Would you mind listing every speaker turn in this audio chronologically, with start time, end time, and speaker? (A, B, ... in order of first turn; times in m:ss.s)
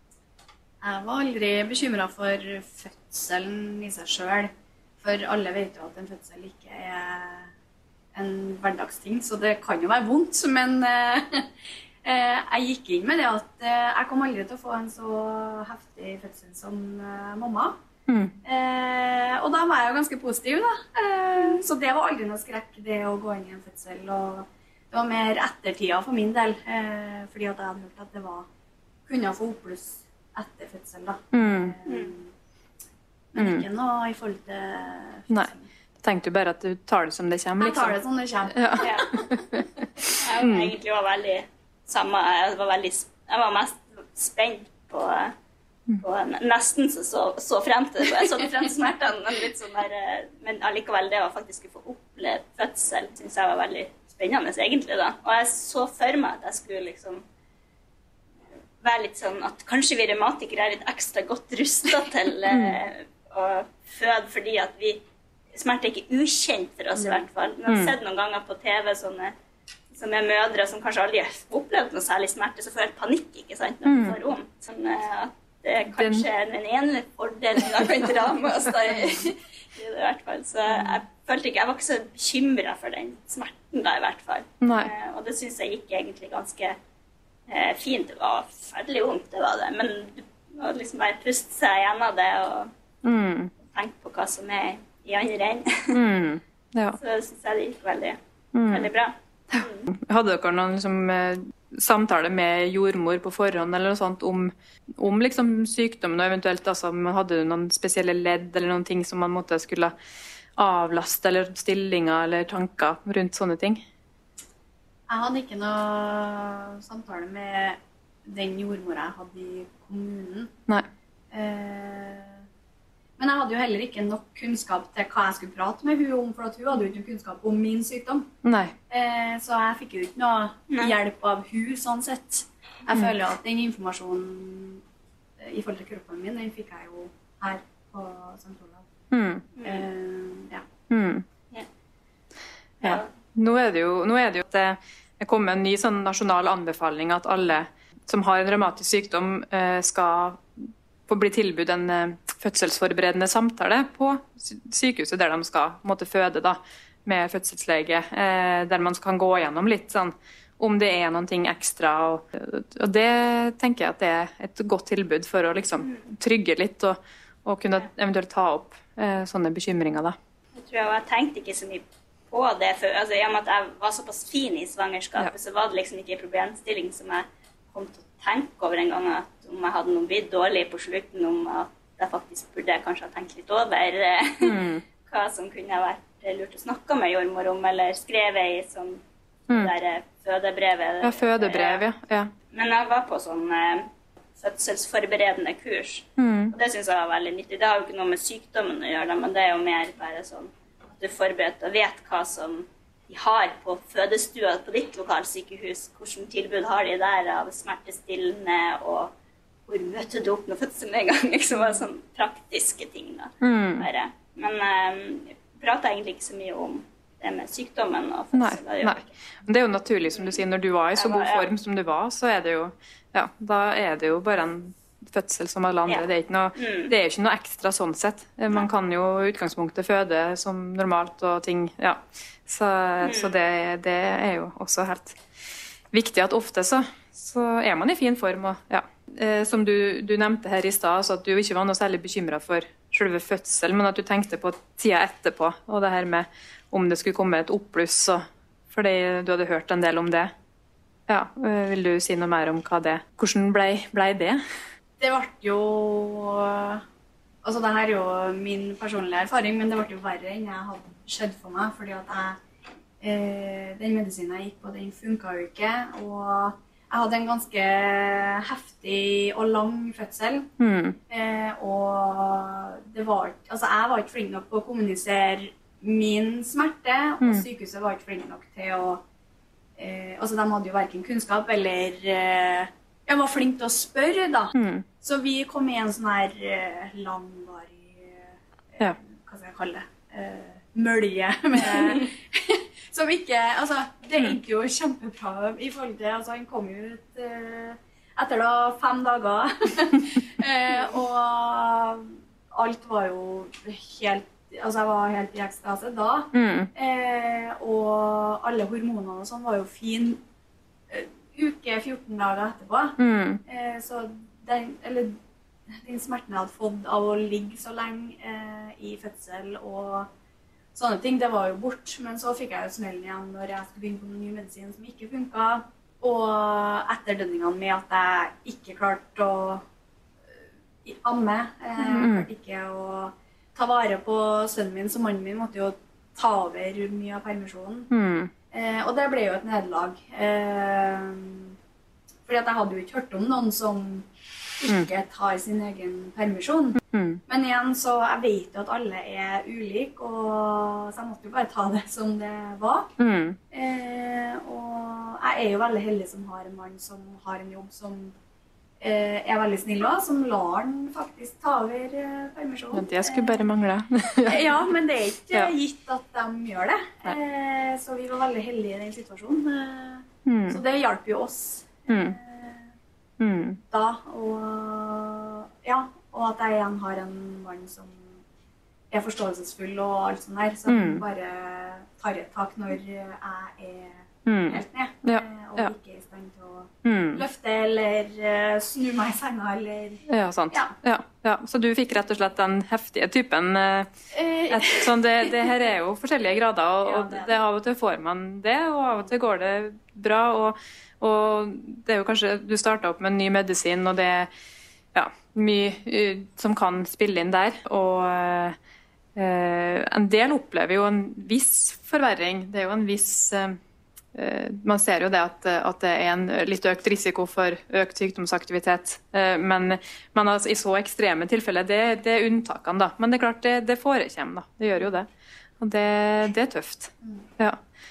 0:00.8-0:07.5 A
0:08.1-0:17.8 A
0:18.1-0:18.4 B
0:18.4-0:28.5 A
0:29.1-0:32.3 A
0:31.3-0:31.8 B
0:31.9-0:32.1 C
0:33.3-0:35.7 A
0:33.4-0:33.6 B
0:35.3-0:38.0 B
0:37.6-0:39.6 A
0:38.5-0:40.7 B
0:38.8-0:39.1 C
0:40.2-0:45.3 C
0:46.0-0:57.2 C
0:58.8-1:05.0 C
1:02.5-1:02.8 B
1:05.5-1:09.3 C
1:07.7-1:08.0 B
1:09.9-1:26.8 C
1:13.8-1:14.2 B
1:15.9-1:16.3 B
1:24.6-1:24.9 B
1:27.5-1:32.7 C
1:33.0-1:33.5 B
1:33.6-1:36.0 C
1:35.9-1:37.0 B
1:37.0-1:38.2 C
1:38.5-1:38.9 B
1:38.7-1:39.9 C
1:39.5-1:49.9 B
1:50.6-1:53.8 B
1:55.1-2:00.5 A
2:01.3-2:02.4 A
2:03.2-2:08.3 A
2:08.4-2:08.7 B
2:08.9-2:14.8 A
2:15.4-2:18.9 A
2:19.1-2:19.4 B
2:19.6-2:19.8 C
2:19.6-2:20.6 A
2:20.9-2:21.3 B
2:22.8-2:23.1 C
2:22.8-2:50.2 B
2:50.6-3:11.8 C
3:04.4-3:04.8 B
3:11.0-3:12.3 B
3:12.5-3:29.1 C
3:16.2-3:16.5 B
3:29.7-3:39.1 C
3:33.4-3:33.9 B
3:38.3-3:55.2 B
3:41.0-3:41.5 C
3:45.9-3:46.9 C
3:53.0-3:53.4 C
3:55.9-4:10.3 B
4:11.1-4:14.4 B
4:15.0-4:16.8 A
4:17.4-4:22.4 A
4:23.0-4:30.5 A
4:30.6-4:31.0 B
4:31.1-4:39.0 A
4:39.8-5:10.2 A
4:44.6-4:44.9 B
5:06.3-5:06.7 B
5:10.9-5:15.2 A
5:13.0-5:13.4 B
5:15.7-5:20.1 A
5:20.7-5:29.6 A
5:30.3-5:37.9 A
5:31.8-5:32.3 B
5:37.9-5:38.3 B
5:38.5-5:41.6 A
5:42.3-5:44.1 A
5:44.6-5:52.9 A
5:46.8-5:47.2 B
5:53.0-5:53.4 B
5:53.5-5:58.2 A
5:58.8-6:03.4 A
6:02.7-6:04.6 B
6:04.2-6:12.7 A
6:10.2-6:10.6 B
6:11.9-6:12.2 B
6:13.2-6:13.6 B
6:13.7-6:18.2 A
6:18.9-6:30.8 A
6:20.7-6:21.0 B
6:24.3-6:25.7 B
6:26.8-6:27.2 B
6:30.1-6:33.9 B
6:34.1-6:35.5 A
6:34.5-6:44.3 B
6:36.9-6:37.3 A
6:44.9-6:48.6 B
6:49.2-6:53.6 B
6:54.1-7:05.1 B
7:05.6-7:07.6 B